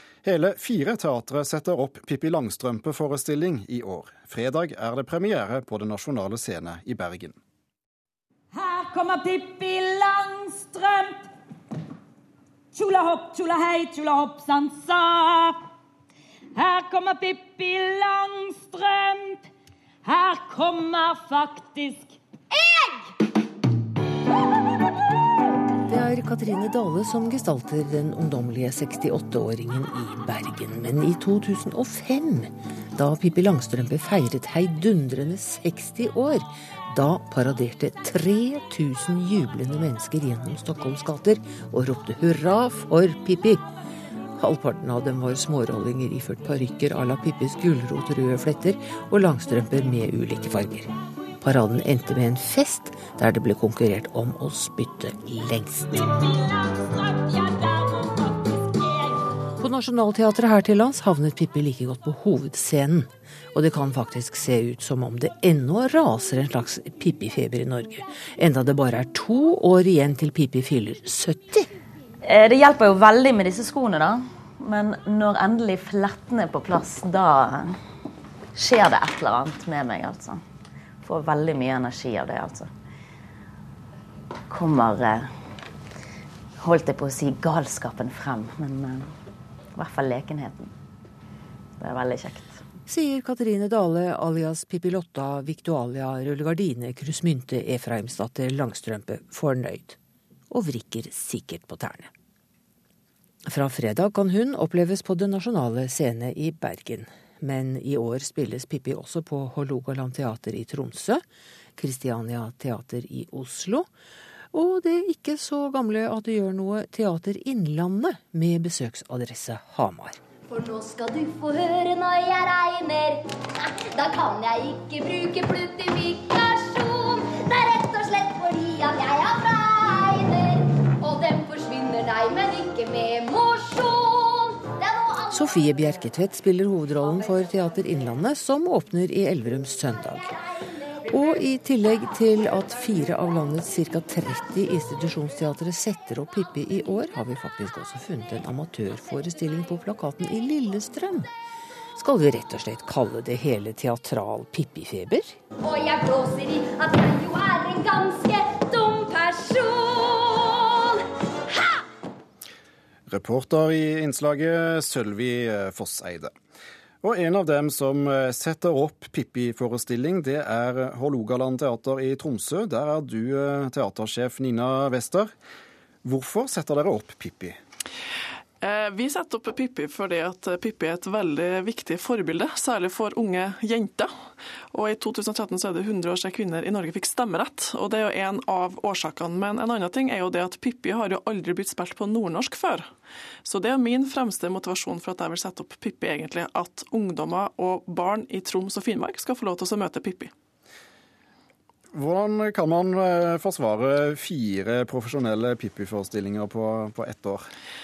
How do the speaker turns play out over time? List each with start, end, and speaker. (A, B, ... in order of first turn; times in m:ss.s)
0:00.2-0:07.4 A
0:08.5-0:11.3 B
0:12.7-0:15.6 B
0:16.5-0:19.5 B
0:20.0-0:23.1 B
0:25.9-0:43.6 C
0:44.4-0:56.1 C
0:56.2-0:59.2 B
0:59.6-1:11.7 C
1:12.2-1:17.8 D
1:18.6-1:20.4 D
1:21.0-1:22.7 D
1:24.5-1:25.3 D
1:26.6-1:29.1 D
1:29.7-1:30.7 D
1:31.8-1:32.6 D
1:32.9-1:40.0 C
1:40.5-1:42.1 C
1:43.5-1:51.2 C
1:51.8-1:53.9 C
1:54.5-2:00.2 C
2:00.5-2:15.4 E
2:15.3-2:20.4 C
2:21.1-2:31.3 C
2:32.0-2:35.4 C
2:35.6-2:41.8 E
2:43.1-2:46.3 A
2:47.0-2:55.3 A
2:56.0-2:57.6 A
2:58.6-3:04.1 F
3:04.7-3:12.8 F
3:13.4-3:20.3 F
3:21.9-3:27.4 A